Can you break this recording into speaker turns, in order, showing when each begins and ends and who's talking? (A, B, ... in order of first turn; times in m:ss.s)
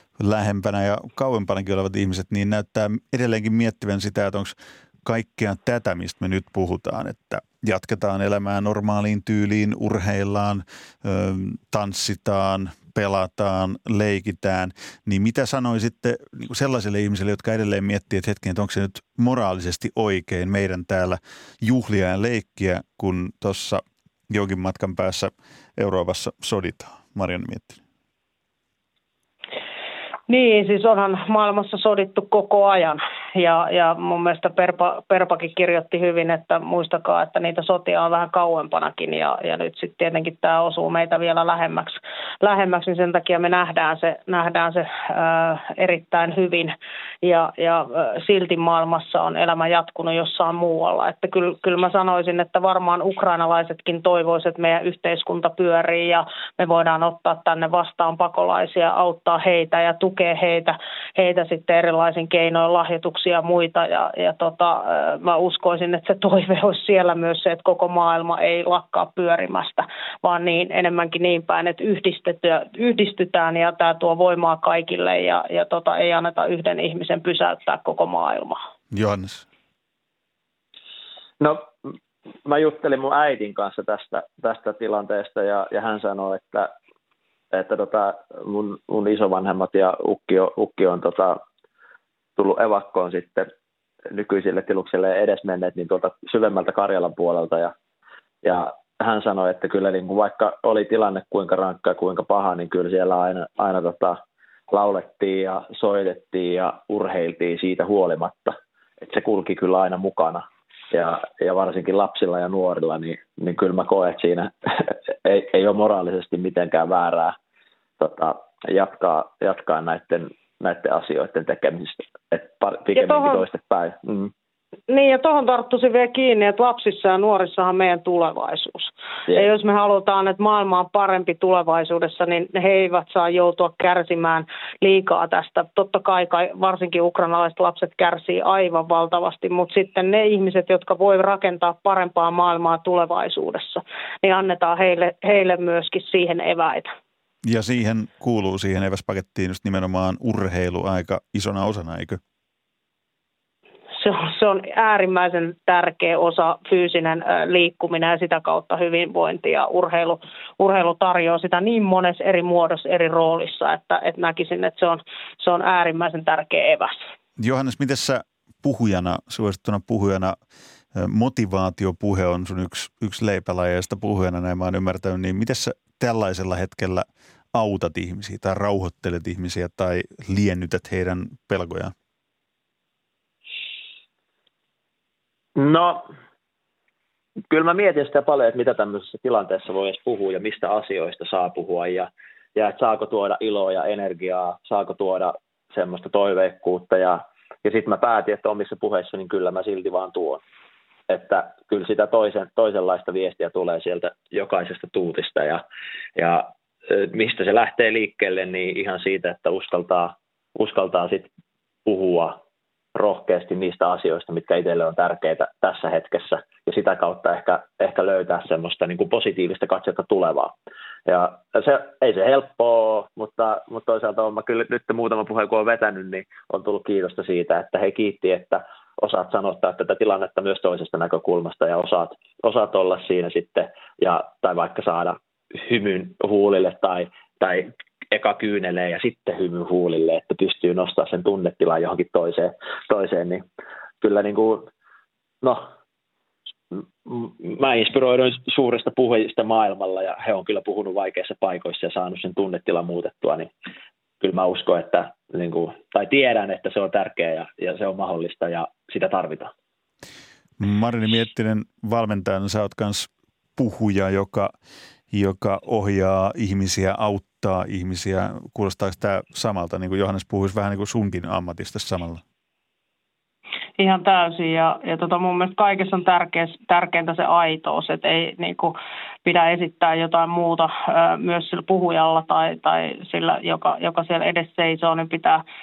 0:00.2-0:27.8 A
0:30.3-1:18.6 B
1:18.9-1:19.5 A
1:21.4-1:26.7 C
1:27.5-1:31.4 C
1:32.4-1:33.5 C
1:34.1-1:37.7 C
1:38.4-1:44.2 C
1:44.7-1:57.4 C
1:58.0-2:04.3 C
2:02.9-2:03.4 B
2:04.9-2:26.9 B
2:27.4-2:32.2 A
2:34.0-2:47.0 B
2:47.4-2:50.4 A
2:51.0-3:01.9 A
3:05.6-3:06.0 C
3:07.5-3:20.4 C
3:21.1-3:25.6 C
3:26.2-3:31.3 C
3:31.9-3:32.4 C
3:33.0-3:40.5 C
3:41.1-4:03.4 C
4:04.0-4:04.7 C
4:05.4-4:05.7 C
4:06.7-4:13.5 C
4:14.2-4:19.5 C
4:20.6-4:24.5 A
4:25.1-4:32.2 A
4:33.8-4:45.4 B